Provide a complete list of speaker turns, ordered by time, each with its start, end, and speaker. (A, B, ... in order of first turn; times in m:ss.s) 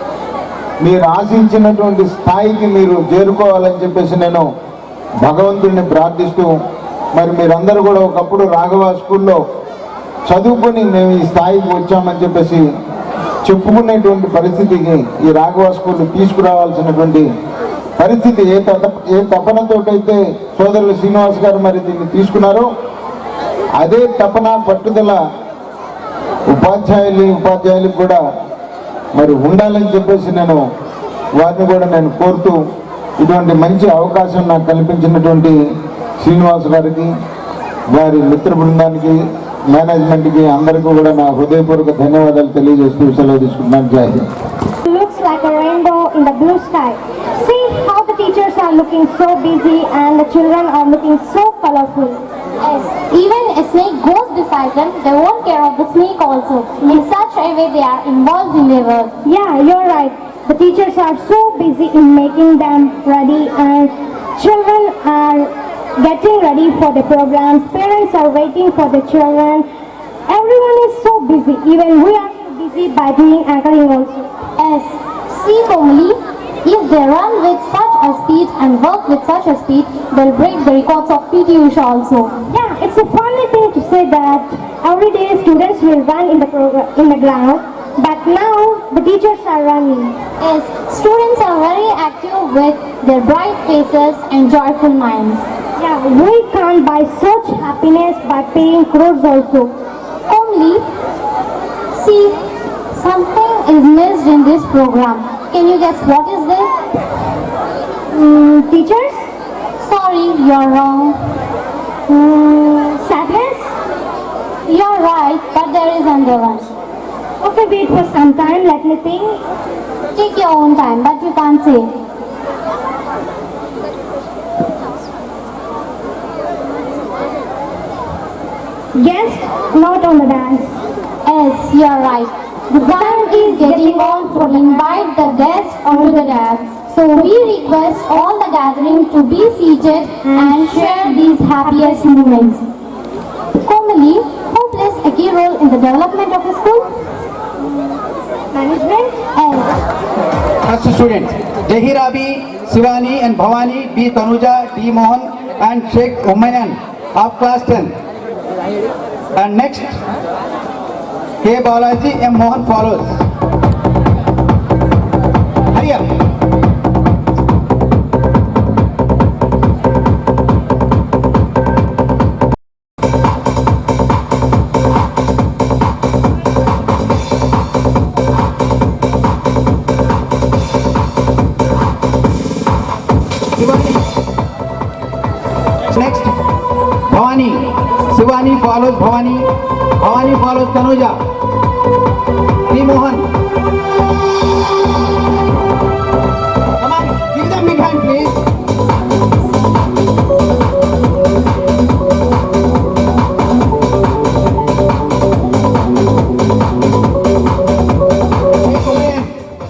0:00.8-0:04.4 A
0:05.2-0:06.5 A
0:07.2-0:09.4 A
0:10.3-0:12.6 A
0:13.4-0:17.3 A
0:18.0-0:22.7 A
0:23.8-0:25.2 A
0:26.5-0:28.2 A
0:29.2-0:30.6 A
0:31.4-0:32.6 A
0:33.2-0:35.6 A
0:36.2-0:37.1 A
0:37.9-0:39.2 A
0:39.7-0:44.2 A
0:44.8-0:52.2 B
0:52.6-0:59.1 C
0:59.2-1:09.6 B
1:10.3-1:14.3 B
1:14.6-1:22.3 C
1:22.5-1:30.2 B
1:30.4-1:35.4 C
1:35.8-1:39.7 B
1:40.3-1:40.8 C
1:41.9-1:42.4 C
1:42.9-1:46.7 C
1:48.1-1:49.2 B
1:49.8-1:51.2 C
1:52.1-1:53.7 B
1:54.7-1:56.7 C
1:57.4-1:59.4 B
2:00.2-2:01.9 C
2:09.0-2:10.7 B
2:11.2-2:22.6 C
2:12.7-2:15.1 B
2:15.8-2:16.3 B
2:20.3-2:21.0 B
2:21.6-2:22.2 B
2:23.6-2:26.9 C
2:28.5-2:29.2 B
2:29.4-2:29.7 C
2:30.6-2:37.9 D
2:39.4-2:40.0 D
2:41.4-2:43.2 D
2:45.7-2:46.0 D
3:03.6-3:04.0 D
3:05.9-3:06.3 D
3:07.1-3:09.5 D
3:10.0-3:11.2 D
3:12.7-3:13.2 D
3:16.8-3:18.4 D
3:28.6-3:29.3 D